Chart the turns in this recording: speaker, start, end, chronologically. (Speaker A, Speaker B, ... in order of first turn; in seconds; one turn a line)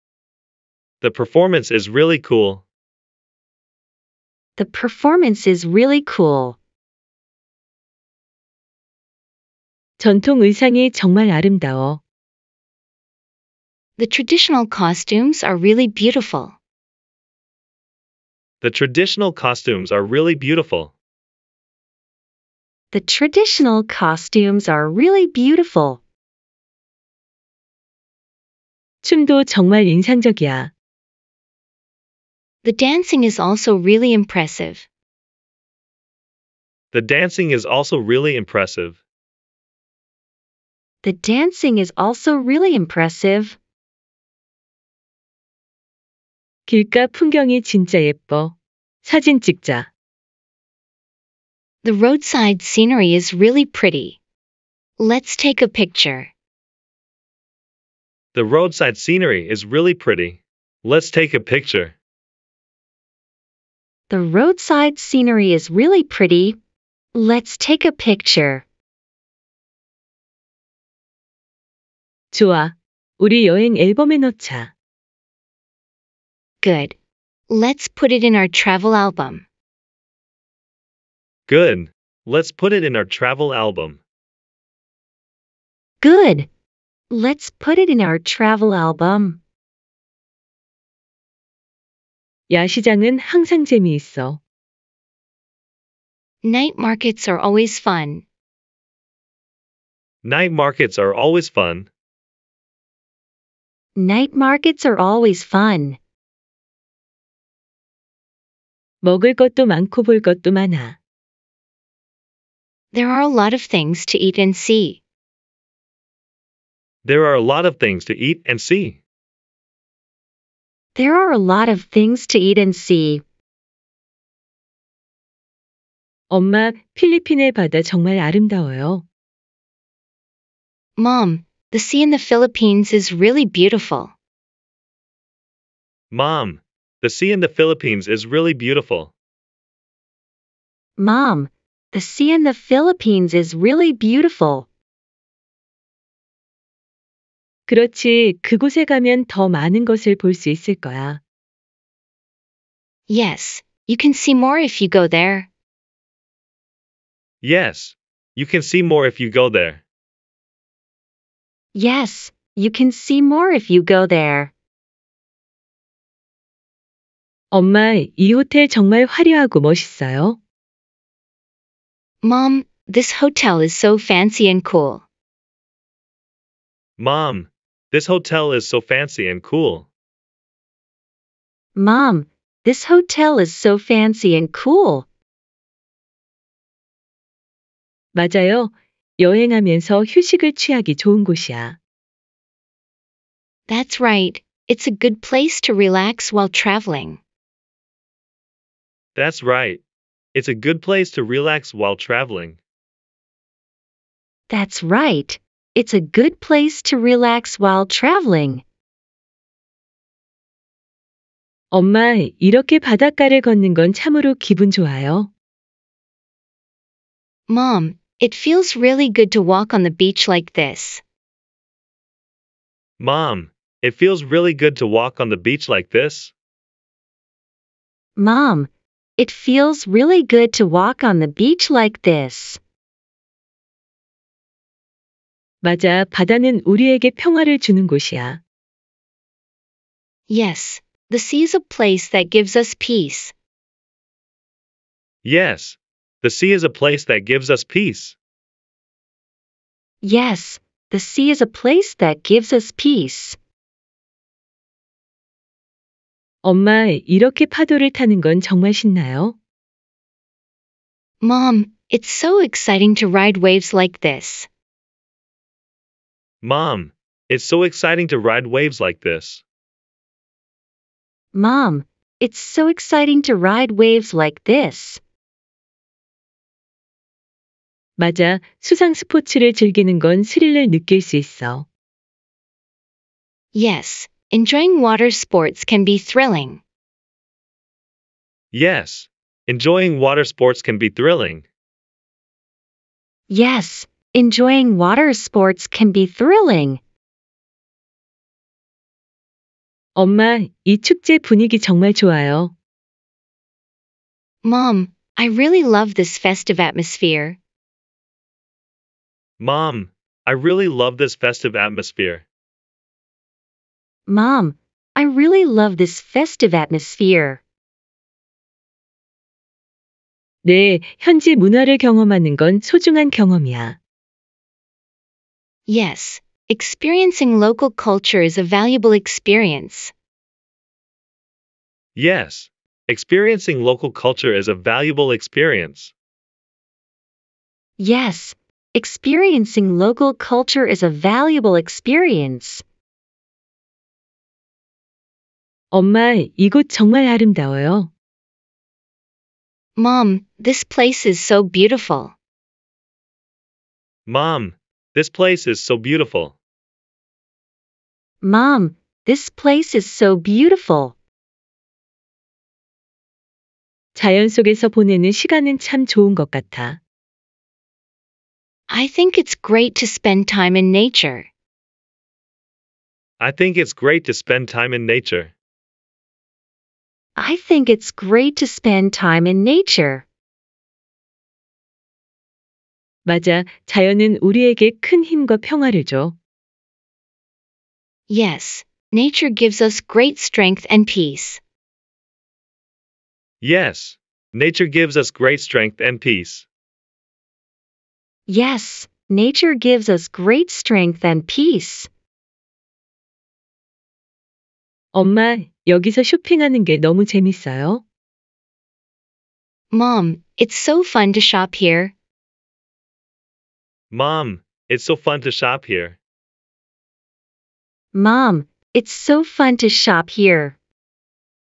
Speaker A: 1.0-2.6
Speaker B: 4.6-6.6
Speaker C: 10.0-12.0
Speaker D: 14.0-16.6
Speaker A: 18.6-20.9
Speaker B: 22.9-26.0
Speaker C: 29.0-30.7
Speaker D: 32.6-34.9
Speaker A: 36.9-39.0
Speaker B: 41.0-43.6
Speaker C: 46.7-49.9
Speaker D: 51.8-54.2
Speaker D: 55.0-56.3
Speaker A: 58.3-62.0
Speaker B: 64.1-66.6
Speaker B: 67.1-68.6
Speaker C: 72.3-74.7
Speaker D: 76.6-76.9
Speaker D: 77.5-79.4
Speaker A: 81.5-84.0
Speaker B: 86.0-86.5
Speaker B: 87.1-89.4
Speaker C: 92.5-94.4
Speaker D: 96.4-98.2
Speaker A: 100.2-101.9
Speaker B: 104.0-106.0
Speaker C: 109.0-111.0
Speaker D: 112.9-115.0
Speaker A: 117.0-119.0
Speaker B: 121.0-123.2
Speaker C: 126.3-129.1
Speaker D: 131.0-134.1
Speaker A: 136.1-139.1
Speaker B: 141.0-144.7
Speaker C: 147.7-151.2
Speaker D: 153.1-155.5
Speaker A: 157.4-159.8
Speaker B: 161.7-164.5
Speaker C: 167.5-170.4
Speaker D: 172.2-175.0
Speaker A: 177.0-179.9
Speaker B: 181.8-185.1
Speaker C: 188.2-191.8
Speaker D: 193.7-197.2
Speaker A: 199.2-199.8
Speaker A: 200.3-202.6
Speaker B: 204.5-208.6
Speaker C: 211.7-215.3
Speaker D: 217.5-221.0
Speaker A: 223.0-226.3
Speaker B: 228.2-232.6
Speaker C: 235.6-238.4
Speaker D: 240.3-243.3
Speaker A: 245.2-248.2
Speaker B: 250.0-253.4
Speaker C: 256.4-259.4
Speaker D: 261.2-264.5
Speaker A: 266.4-269.4
Speaker B: 271.3-275.0
Speaker C: 278.0-281.7
Speaker D: 283.5-286.6
Speaker A: 288.5-291.4
Speaker B: 293.3-296.8
Speaker C: 300.0-302.5
Speaker D: 304.4-307.4
Speaker A: 309.4-312.2
Speaker B: 314.1-317.4
Speaker C: 320.4-323.8
Speaker D: 325.7-329.9
Speaker A: 332.0-335.9
Speaker B: 337.8-342.6
Speaker C: 345.7-347.9
Speaker D: 349.8-352.1
Speaker A: 354.1-356.4
Speaker B: 358.2-360.9
Speaker C: 364.0-366.8
Speaker D: 368.7-371.3
Speaker A: 373.2-375.3
Speaker B: 377.2-380.1
Speaker C: 383.1-386.1
Speaker D: 388.1-391.4
Speaker A: 393.4-396.5
Speaker B: 398.3-401.9
Speaker C: 404.9-407.8
Speaker D: 409.7-411.9
Speaker A: 413.9-416.0
Speaker B: 417.9-420.6